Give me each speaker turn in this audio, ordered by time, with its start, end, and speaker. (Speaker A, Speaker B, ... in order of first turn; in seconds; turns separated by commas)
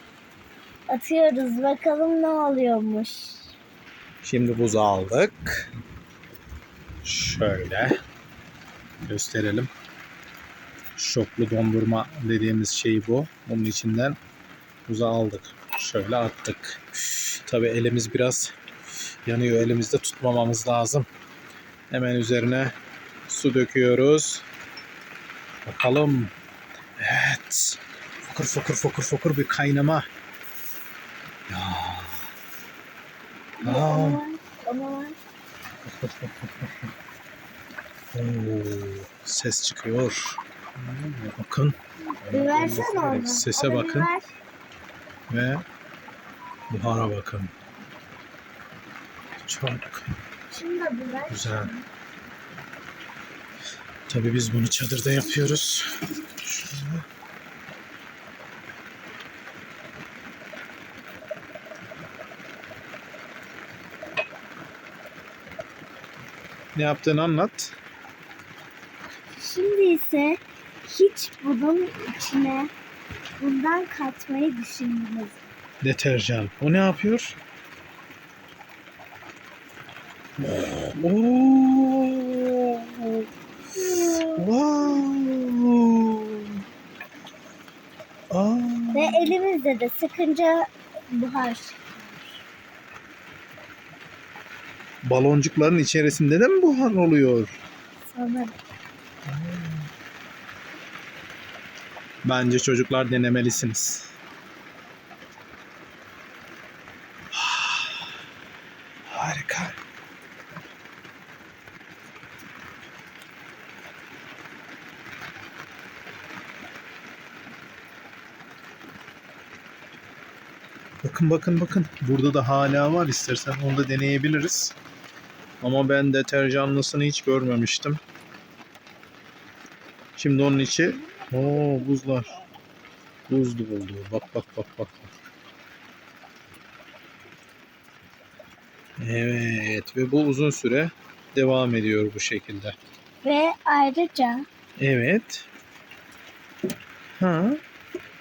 Speaker A: 0.9-3.5, Speaker B: 4.2-5.7, Speaker B: 7.0-8.0, Speaker B: 9.0-9.7, Speaker B: 11.0-14.2, Speaker B: 14.9-18.6, Speaker B: 19.3-21.1, Speaker B: 21.9-22.8, Speaker B: 23.3-24.4, Speaker B: 25.7-26.3, Speaker B: 27.0-30.1, Speaker B: 31.5-32.3, Speaker A: 33.6-35.2, Speaker B: 33.6-34.2, Speaker B: 35.8-36.9, Speaker B: 38.1-44.1, Speaker A: 42.1-44.3, Speaker B: 45.3-45.6, Speaker B: 46.7-47.5, Speaker B: 49.4-50.1, Speaker A: 50.5-51.8, Speaker B: 51.3-51.7, Speaker B: 54.1-57.0, Speaker B: 66.8-67.8, Speaker A: 69.3-72.7, Speaker A: 73.4-75.5, Speaker B: 75.8-77.4, Speaker B: 80.4-83.3, Speaker A: 83.8-84.5, Speaker B: 83.9-86.6, Speaker B: 88.3-89.3, Speaker A: 88.9-92.4, Speaker B: 95.0-97.5, Speaker A: 98.0-98.5, Speaker B: 99.3-99.9, Speaker B: 102.2-104.1, Speaker B: 107.3-108.2, Speaker B: 109.1-109.8, Speaker B: 121.0-124.8, Speaker B: 125.6-128.0, Speaker B: 130.2-132.4, Speaker A: 131.0-132.4, Speaker B: 133.3-135.1, Speaker B: 139.0-142.8, Speaker A: 143.2-144.5, Speaker B: 144.8-145.5, Speaker B: 147.2-147.6